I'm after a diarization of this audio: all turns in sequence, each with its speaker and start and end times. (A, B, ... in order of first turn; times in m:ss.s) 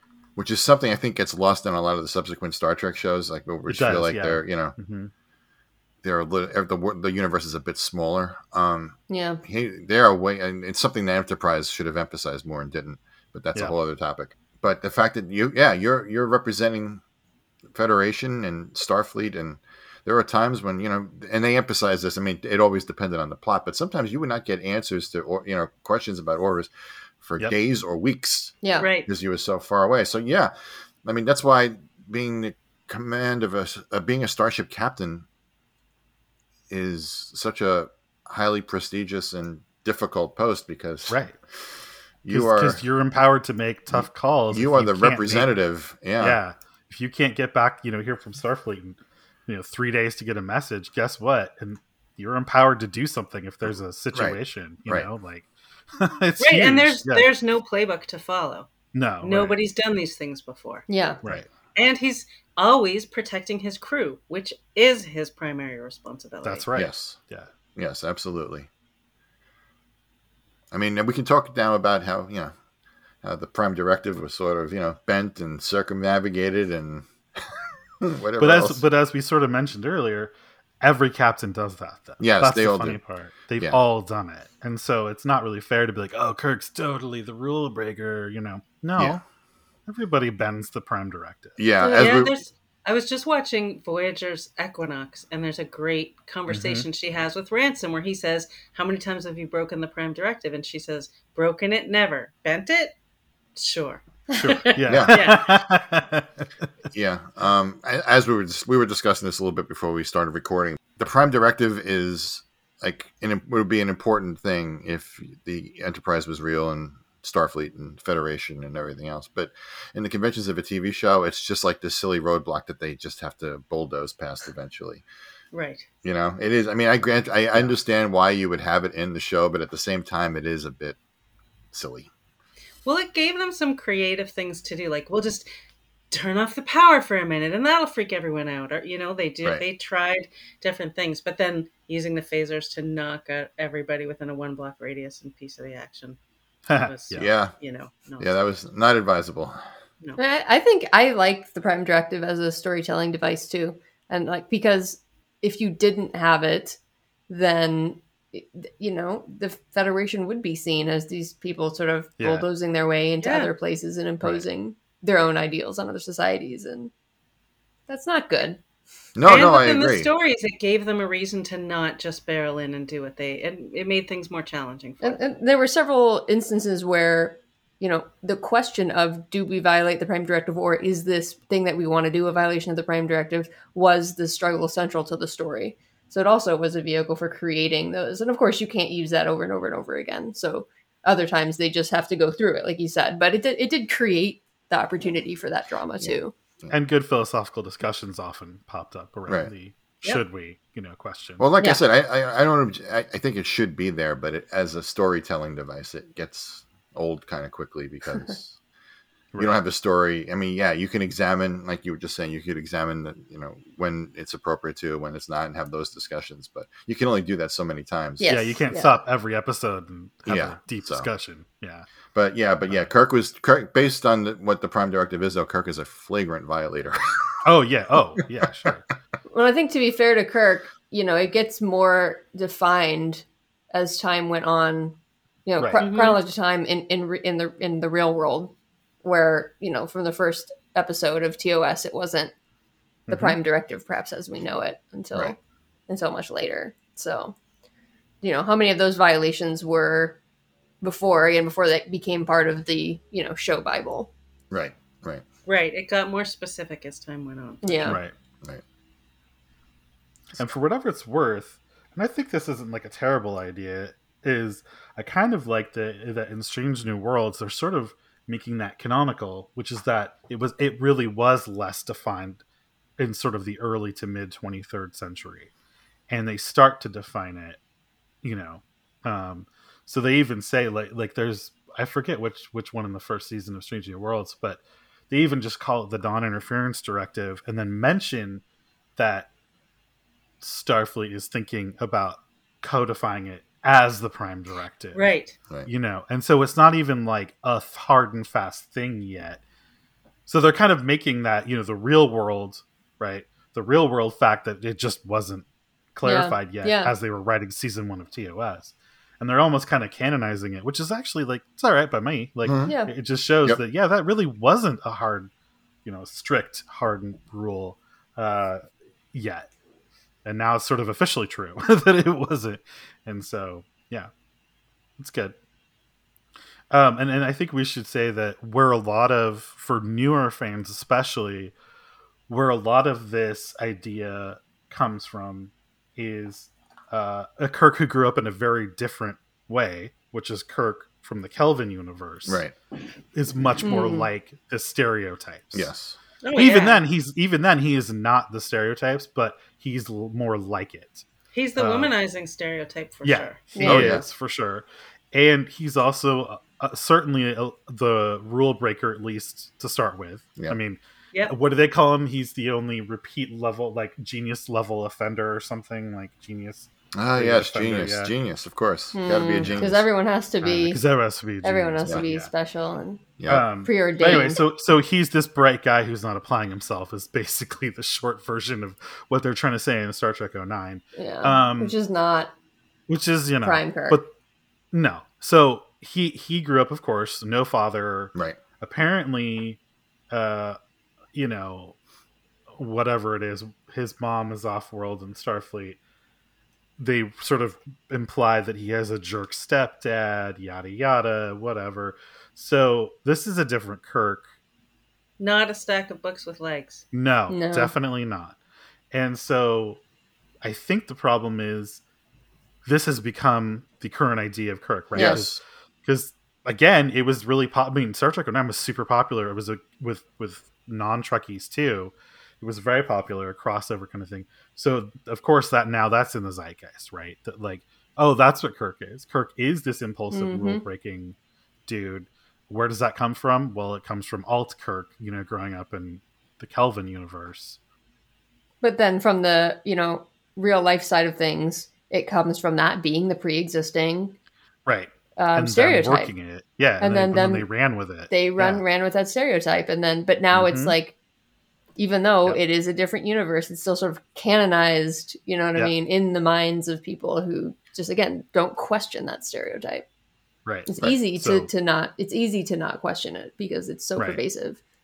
0:00.4-0:04.8 A
0:03.7-0:05.1 B
0:06.0-0:17.0 A
0:09.1-0:09.4 C
0:17.7-0:28.5 A
0:28.6-0:28.9 C
0:28.8-0:29.1 D
0:29.1-0:30.5 A
0:31.0-0:35.2 A
0:36.7-0:41.2 A
0:41.1-0:41.4 B
0:42.2-0:42.8 A
0:42.3-0:45.5 B
0:43.9-0:46.4 A
0:46.2-0:57.3 B
0:54.1-0:55.1 A
0:56.4-1:00.9 D
0:58.9-0:59.6 B
1:00.9-1:01.2 C
1:01.2-1:01.5 B
1:01.7-1:06.7 D
1:06.4-1:07.5 B
1:06.7-1:07.2 A
1:07.8-1:08.7 A
1:10.7-1:12.5 A
1:13.2-1:17.5 A
1:18.0-1:18.8 A
1:18.4-1:29.2 B
1:22.2-1:23.0 A
1:29.9-1:31.6 B
1:31.6-1:32.4 A
1:31.8-1:42.9 D
1:36.5-1:36.9 B
1:43.6-1:45.6 D
1:44.6-1:46.5 B
1:44.9-1:45.2 A
1:46.9-2:05.0 A
2:05.5-2:05.9 D
2:06.0-2:11.0 A
2:11.7-2:12.1 A
2:12.8-2:15.5 D
2:16.1-2:26.2 D
2:26.7-2:27.3 B
2:26.7-2:28.3 D
2:27.2-2:27.5 A
2:28.2-2:29.6 A
2:30.2-2:36.8 C
2:37.3-2:46.9 C
2:42.2-2:42.5 B
2:43.2-2:43.5 D
2:47.9-2:48.6 C
2:49.2-2:50.1 A
2:49.3-2:55.2 D
2:55.0-3:16.3 C
3:16.0-3:16.8 A
3:16.7-3:21.5 B
3:21.4-3:28.6 A
3:29.3-3:29.6 B
3:29.4-3:38.3 A
3:38.2-3:39.0 C
3:38.2-3:41.9 B
3:40.3-3:41.1 A
3:42.1-3:47.0 A
3:47.4-3:48.8 B
3:49.3-4:02.3 C
3:55.8-3:56.2 D
4:03.1-4:05.4 C
4:03.1-4:03.4 B
4:05.9-4:07.4 C
4:08.2-4:10.2 C
4:10.8-4:14.1 C
4:14.5-4:15.2 A
4:15.5-4:18.0 D
4:17.6-4:18.0 C
4:17.8-4:18.1 B
4:20.4-4:32.4 B
4:33.0-4:35.5 B
4:36.1-4:37.6 B
4:38.2-4:48.4 B
4:49.0-4:49.3 B
4:50.4-4:55.1 B
4:54.9-4:55.4 D
4:55.6-4:59.4 B
5:00.3-5:15.3 B
5:06.0-5:06.9 C
5:12.4-5:12.7 A
5:12.7-5:12.9 C
5:15.8-5:19.5 B
5:20.2-5:24.1 B
5:25.0-5:25.4 B
5:26.7-5:31.5 B
5:32.3-5:42.4 B
5:42.2-5:42.5 A
5:43.1-5:45.7 B
5:43.6-5:44.1 C
5:45.5-5:46.0 A
5:46.2-5:46.8 D
5:46.4-5:51.0 B
5:51.3-5:53.4 D
5:51.6-5:51.9 B
5:53.0-6:08.1 B
5:53.5-5:54.0 C
5:53.6-5:54.0 A
6:06.9-6:09.9 A
6:08.9-6:10.8 C
6:09.4-6:09.8 B
6:10.4-6:12.3 B
6:11.4-6:13.0 C
6:13.2-6:13.5 A
6:13.3-6:21.8 B
6:13.6-6:14.4 C
6:21.0-6:22.3 C
6:22.9-6:24.1 B
6:23.4-6:24.0 C
6:24.7-6:29.6 B
6:30.1-6:30.6 B
6:31.2-6:31.8 B
6:32.5-6:35.8 B
6:36.8-6:44.2 B
6:45.2-6:46.8 D
6:46.9-6:48.4 B
6:47.3-6:47.8 C
6:48.9-6:49.8 B
6:50.4-6:51.8 B
6:52.6-7:11.2 B
6:54.9-6:55.4 A
6:55.0-6:55.2 C
7:10.1-7:10.6 C
7:11.7-7:17.6 B
7:18.6-7:24.2 C
7:24.7-7:28.6 B
7:25.2-7:26.1 C
7:26.8-7:27.5 C
7:28.1-7:31.0 C
7:30.3-7:30.8 B
7:31.8-7:39.8 C
7:40.5-7:41.5 B
7:40.7-7:44.6 C
7:44.0-7:44.2 B